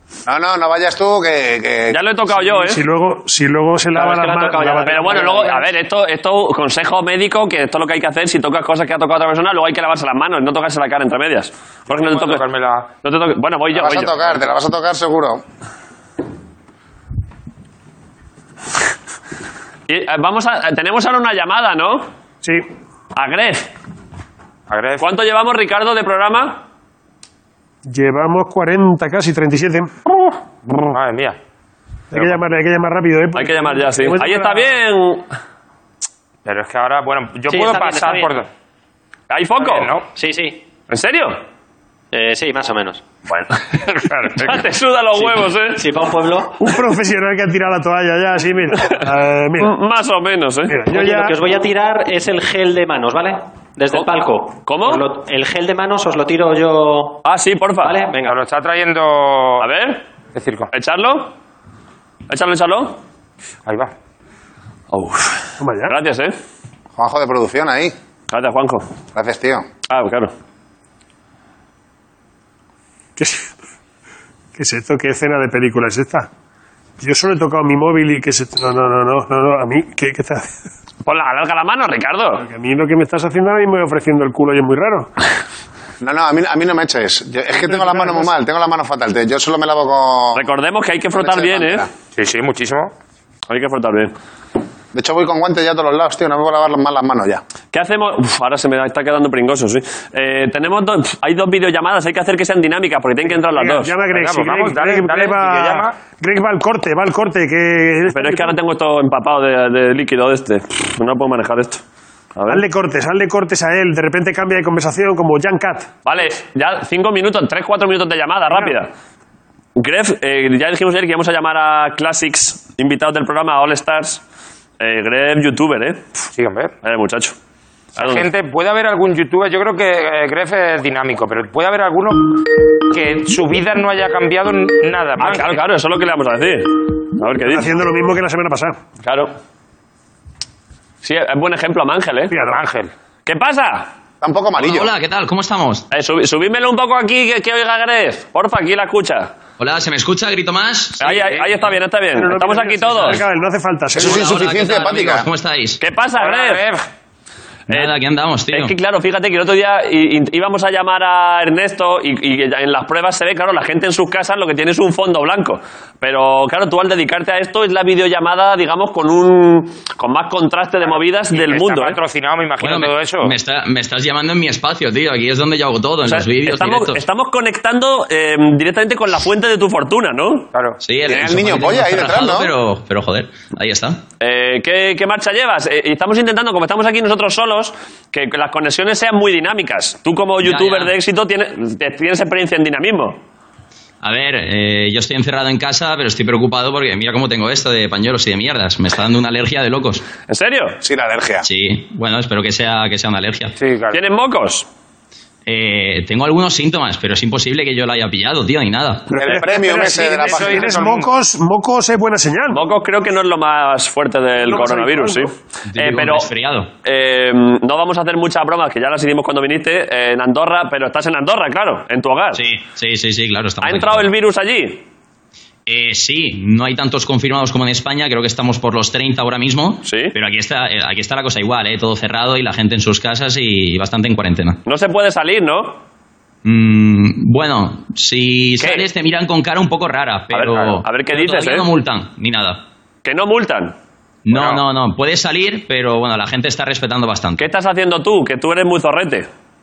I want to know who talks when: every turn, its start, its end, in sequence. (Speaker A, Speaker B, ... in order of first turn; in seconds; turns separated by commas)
Speaker A: 0.3-2.0, Speaker B: 1.9-2.8, Speaker C: 2.4-5.4, Speaker D: 3.9-5.7, Speaker B: 4.9-12.4, Speaker E: 11.9-12.9, Speaker B: 13.0-14.4, Speaker A: 13.7-15.4, Speaker B: 19.9-22.1, Speaker B: 23.1-23.7, Speaker E: 24.7-25.1, Speaker B: 25.0-26.6, Speaker C: 27.9-29.9, Speaker E: 30.8-31.4, Speaker C: 32.1-34.8, Speaker B: 33.3-35.3, Speaker E: 36.5-38.5, Speaker D: 37.5-38.4, Speaker B: 39.3-39.9, Speaker E: 39.6-40.1, Speaker D: 40.1-40.6, Speaker B: 40.9-41.4, Speaker D: 42.1-43.0, Speaker B: 43.3-45.9, Speaker D: 45.7-46.8, Speaker C: 46.6-49.7, Speaker B: 49.6-50.8, Speaker C: 50.7-51.4, Speaker D: 50.9-57.2, Speaker B: 54.6-55.0, Speaker B: 57.2-58.0, Speaker D: 57.8-58.4, Speaker E: 58.2-59.7, Speaker B: 59.6-60.0, Speaker E: 60.3-60.7, Speaker B: 60.7-61.3, Speaker B: 62.3-63.0, Speaker E: 63.7-63.9, Speaker B: 64.9-66.4, Speaker C: 65.6-65.9, Speaker A: 67.0-68.0, Speaker B: 68.3-68.9, Speaker A: 69.1-69.7, Speaker B: 69.9-70.3, Speaker C: 73.2-73.5, Speaker C: 74.6-76.3, Speaker C: 77.0-80.6, Speaker B: 81.0-82.5, Speaker C: 82.4-85.1, Speaker A: 86.0-90.5, Speaker C: 87.6-88.3, Speaker B: 90.3-91.8, Speaker A: 91.2-91.9, Speaker E: 92.2-92.9, Speaker B: 93.5-94.1, Speaker A: 94.9-97.4, Speaker B: 97.7-104.0, Speaker C: 103.3-108.5, Speaker E: 104.1-106.0, Speaker B: 108.1-111.8, Speaker B: 112.3-112.6, Speaker C: 112.5-115.9, Speaker B: 116.0-118.9, Speaker B: 119.8-124.2, Speaker B: 124.8-126.0, Speaker E: 126.3-126.7, Speaker B: 126.8-127.4, Speaker B: 128.0-128.3, Speaker E: 128.0-135.6, Speaker B: 135.2-137.7, Speaker C: 137.4-138.8, Speaker B: 139.0-139.3, Speaker B: 141.0-142.3, Speaker C: 142.3-142.6, Speaker E: 142.3-142.9, Speaker B: 143.3-143.9, Speaker A: 144.2-144.9, Speaker F: 144.6-145.9, Speaker B: 145.9-149.3, Speaker F: 149.6-151.4, Speaker B: 151.0-153.2, Speaker C: 152.1-154.3, Speaker A: 154.0-155.3, Speaker F: 154.0-155.8, Speaker B: 155.8-156.6, Speaker E: 156.2-156.8, Speaker F: 157.7-158.7, Speaker B: 158.5-172.0, Speaker E: 171.3-173.3, Speaker F: 172.6-177.0, Speaker B: 176.1-180.5, Speaker F: 180.8-184.0, Speaker A: 181.1-182.5, Speaker B: 184.2-193.2, Speaker F: 190.4-190.9, Speaker F: 194.0-200.1, Speaker B: 200.3-200.8, Speaker A: 200.8-201.5, Speaker F: 201.4-203.5, Speaker E: 203.6-204.0, Speaker B: 203.9-204.7, Speaker F: 205.5-209.2, Speaker C: 209.1-212.7, Speaker A: 209.1-210.7, Speaker E: 209.5-211.1, Speaker B: 212.5-216.3, Speaker C: 214.4-215.3, Speaker F: 215.7-216.7, Speaker B: 216.8-222.4, Speaker F: 222.3-224.1, Speaker B: 223.6-224.8, Speaker F: 225.7-234.6, Speaker B: 229.8-230.2, Speaker B: 234.7-235.8, Speaker F: 236.4-242.6, Speaker B: 238.6-238.9, Speaker B: 240.3-241.7, Speaker B: 243.0-243.8, Speaker F: 244.3-247.4, Speaker B: 244.3-244.6, Speaker B: 247.4-249.3